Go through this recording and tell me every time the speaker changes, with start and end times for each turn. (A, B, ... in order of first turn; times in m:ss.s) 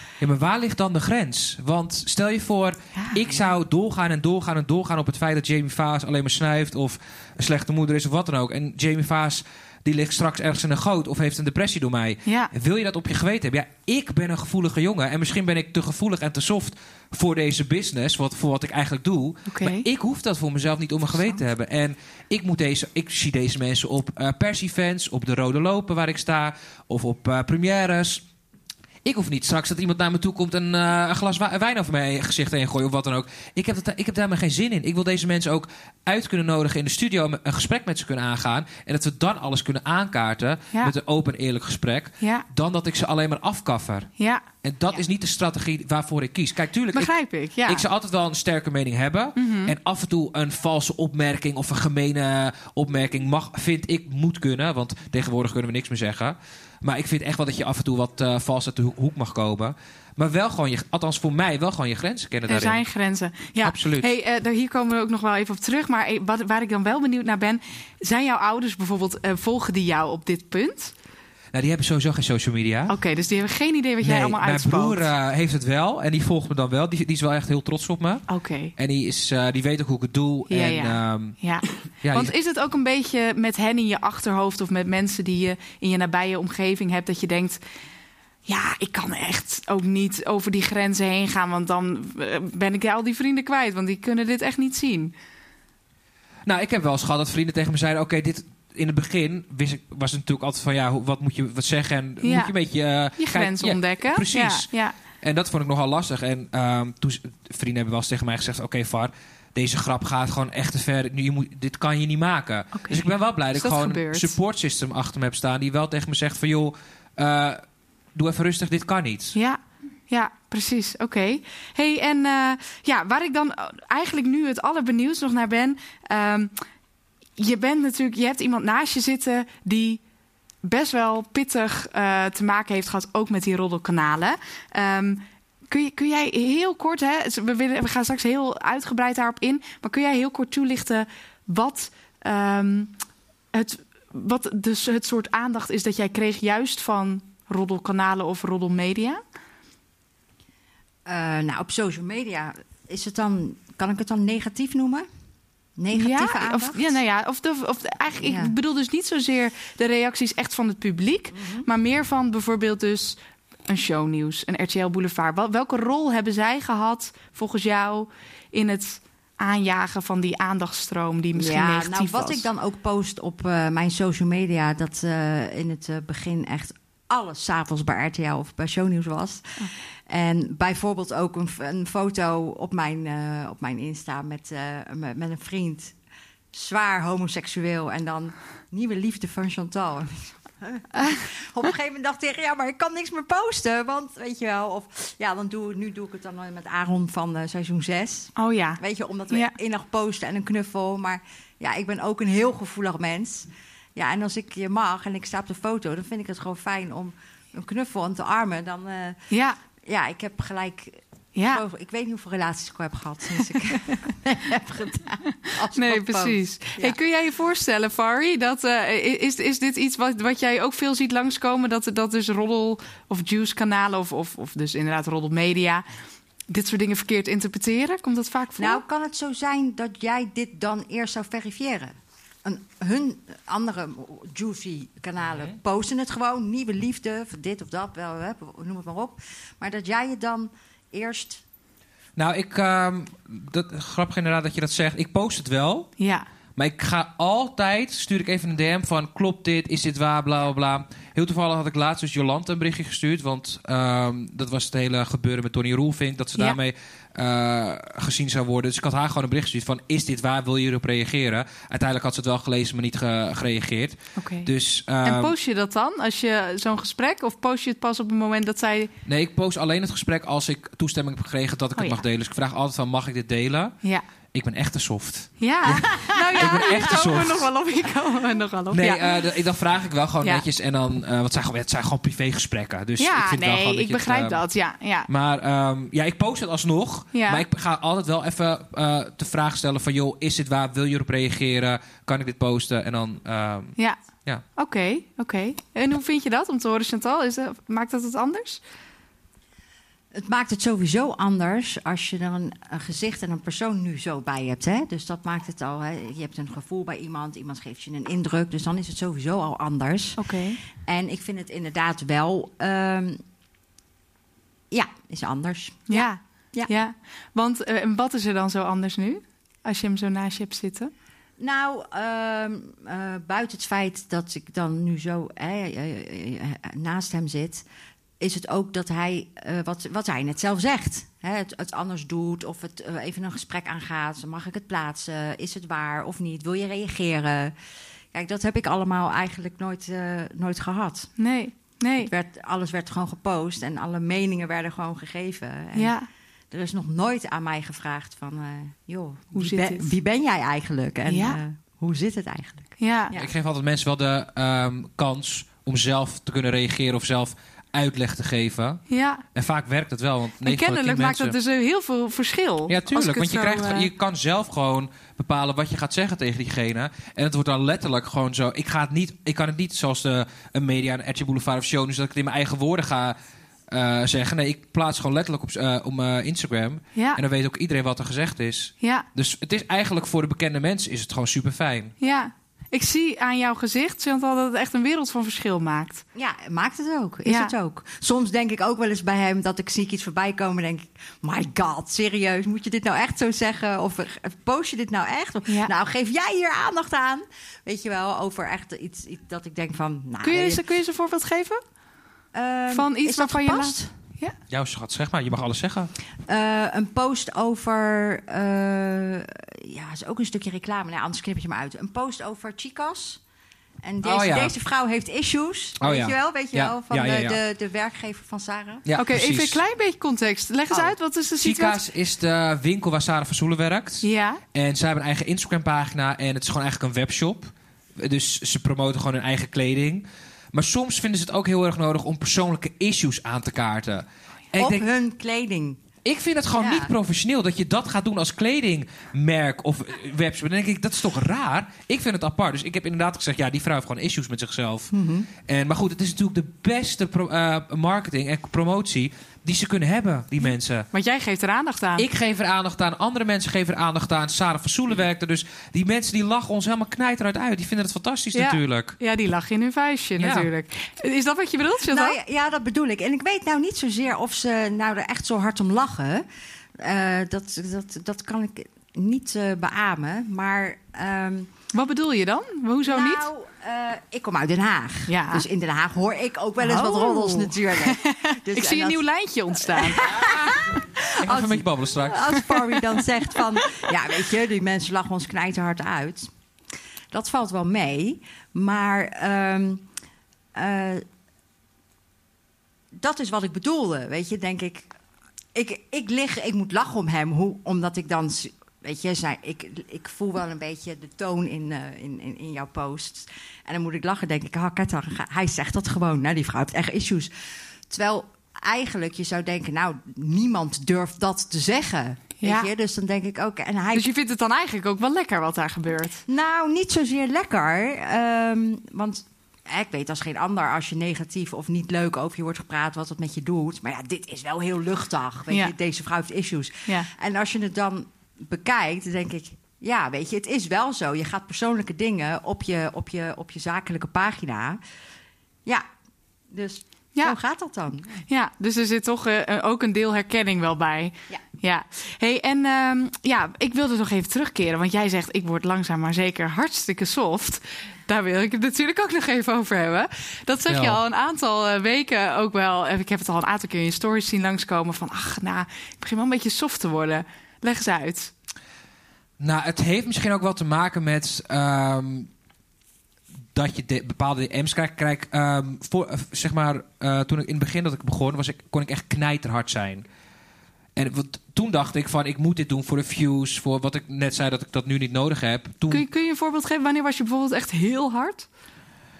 0:00.2-0:28.2 A
0:02.9-0:03.2 B
0:12.2-0:12.5 B
0:19.5-0:19.8 B
0:29.0-0:44.1 A
0:44.6-0:47.1 A
0:46.9-0:47.8 B
0:47.6-1:02.8 A
0:49.4-0:49.7 B
1:02.5-1:10.9 B
1:03.6-1:04.1 A
1:11.5-1:12.9 A
1:12.9-1:15.1 B
1:14.0-1:21.4 A
1:18.3-1:18.7 B
1:20.5-1:27.6 B
1:22.0-1:22.3 A
1:28.4-1:35.1 B
1:36.4-1:57.6 A
1:42.2-1:42.5 B
1:43.2-1:44.9 B
1:52.7-1:54.3 B
1:58.1-1:59.4 A
1:59.3-2:06.5 B
2:07.4-2:10.0 B
2:10.6-2:22.9 B
2:23.5-2:29.2 B
2:31.0-2:35.0 C
2:35.8-2:37.0 C
2:35.9-2:43.2 B
2:38.2-2:38.5 C
2:41.3-2:41.6 C
2:43.7-2:52.4 B
2:51.3-3:05.9 C
3:06.5-3:29.2 C
3:18.4-3:19.5 B
3:29.3-3:29.6 B
3:29.8-3:37.0 C
3:31.3-3:31.6 B
3:35.7-3:45.8 B
3:46.5-3:48.8 B
3:48.6-3:51.9 C
3:52.4-4:01.4 C
4:02.2-4:05.9 A
4:06.0-4:06.2 B
4:06.6-4:25.3 A
4:24.2-4:24.5 B
4:25.0-4:28.9 B
4:29.0-4:33.8 A
4:31.8-4:32.0 B
4:34.3-4:37.5 A
4:35.4-4:39.2 B
4:35.7-4:36.9 C
4:38.7-4:44.4 A
4:43.0-4:45.1 B
4:45.1-4:54.4 A
4:47.1-4:47.4 B
4:54.6-4:58.6 B
5:00.1-5:13.2 C
5:10.2-5:10.6 B
5:14.7-5:16.7 C
5:15.9-5:20.9 B
5:21.4-5:27.6 C
5:28.2-5:37.5 C
5:38.1-5:41.1 C
5:41.2-5:42.1 B
5:42.0-5:46.0 C
5:45.8-5:46.1 B
5:46.5-5:53.3 C
5:49.3-5:49.9 B
5:51.0-5:51.4 B
5:52.8-5:53.1 B
5:53.1-5:58.8 A
5:58.9-5:59.2 B
5:59.3-6:01.3 A
6:00.4-6:03.9 B
6:02.7-6:13.2 A
6:13.7-6:21.9 A
6:22.0-6:26.0 B
6:26.1-6:40.6 C
6:27.2-6:27.5 B
6:35.5-6:35.7 B
6:40.2-6:41.6 B
6:42.3-6:43.9 C
6:42.7-6:44.3 B
6:44.5-6:45.9 A
6:46.3-6:53.2 C
6:53.8-6:58.8 C
6:54.0-6:54.5 A
6:55.8-6:57.4 A
6:58.8-6:59.6 A
6:59.0-7:01.8 B
7:01.4-7:14.8 A
7:04.0-7:04.4 B
7:14.5-7:15.8 C
7:16.0-7:24.9 A
7:16.6-7:16.9 C
7:24.9-7:25.3 C
7:25.4-7:30.9 A
7:30.9-7:32.0 B
7:32.0-7:39.0 A
7:38.3-7:42.2 B
7:40.2-7:40.5 A
7:41.9-7:46.2 C
7:46.8-7:51.5 C
7:51.7-7:53.3 B
7:52.9-7:59.0 C
7:55.1-7:55.4 B
7:56.6-8:00.2 B
7:59.6-8:06.3 C
8:01.2-8:02.4 A
8:07.1-8:09.8 C
8:10.5-8:11.0 C
8:13.0-8:14.9 C
8:15.5-8:27.3 C
8:27.9-8:34.1 C
8:32.4-8:32.7 B
8:33.9-8:36.2 B
8:36.3-8:54.8 C
8:56.5-8:58.2 C
8:58.3-9:18.3 B
9:10.7-9:11.0 A
9:19.4-9:22.3 A
9:23.5-9:30.0 A
9:31.0-9:36.0 A
9:35.9-9:38.5 B